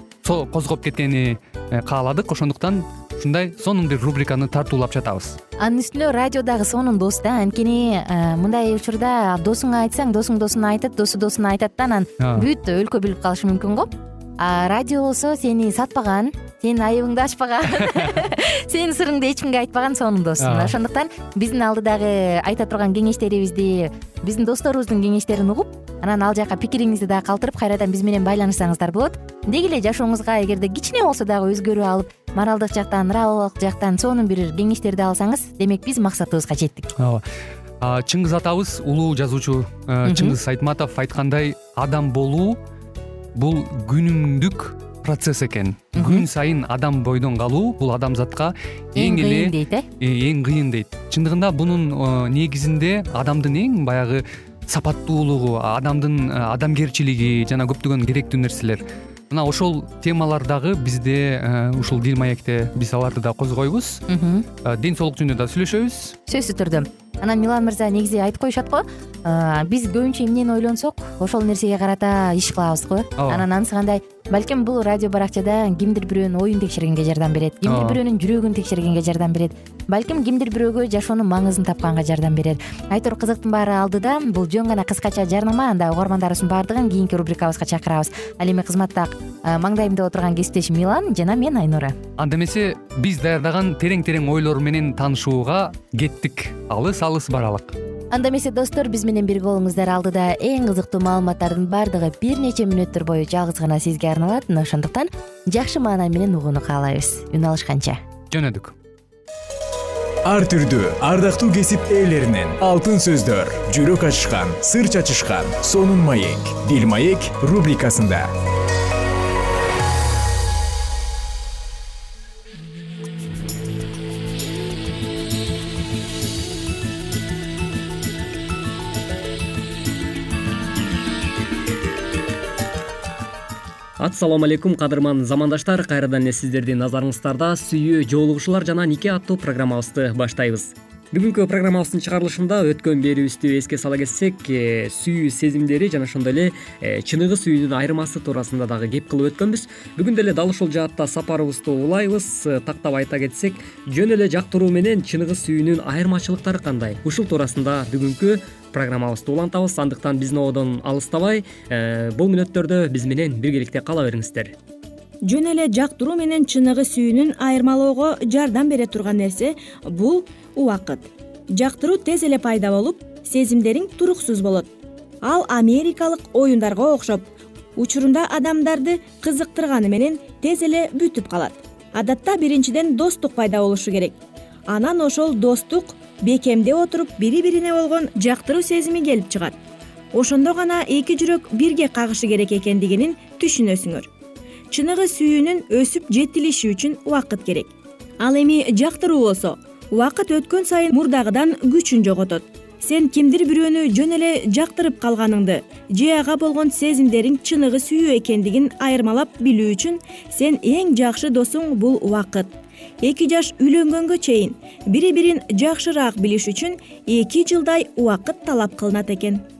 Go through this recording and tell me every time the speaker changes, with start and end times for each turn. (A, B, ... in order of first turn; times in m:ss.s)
0:00.2-0:05.4 A
0:05.6-0:36.9 B
0:12.2-0:12.4 A
0:20.4-0:20.7 A
0:37.0-0:37.2 A
0:37.8-0:42.6 A
0:40.0-0:40.4 B
0:43.4-1:04.0 A
0:46.0-0:46.2 B
0:49.0-0:49.8 B
1:04.1-1:04.4 B
1:04.6-1:06.2 A
1:06.3-1:31.9 B
1:13.2-1:13.4 A
1:17.6-1:18.0 A
1:32.2-1:37.7 A
1:38.1-1:48.0 B
1:48.3-1:48.7 A
1:50.2-1:58.3 C
2:14.0-2:44.5 D
2:45.2-2:54.7 E
2:55.2-2:57.2 E
2:57.8-3:09.5 E
3:10.1-3:14.1 E
3:14.7-3:39.4 E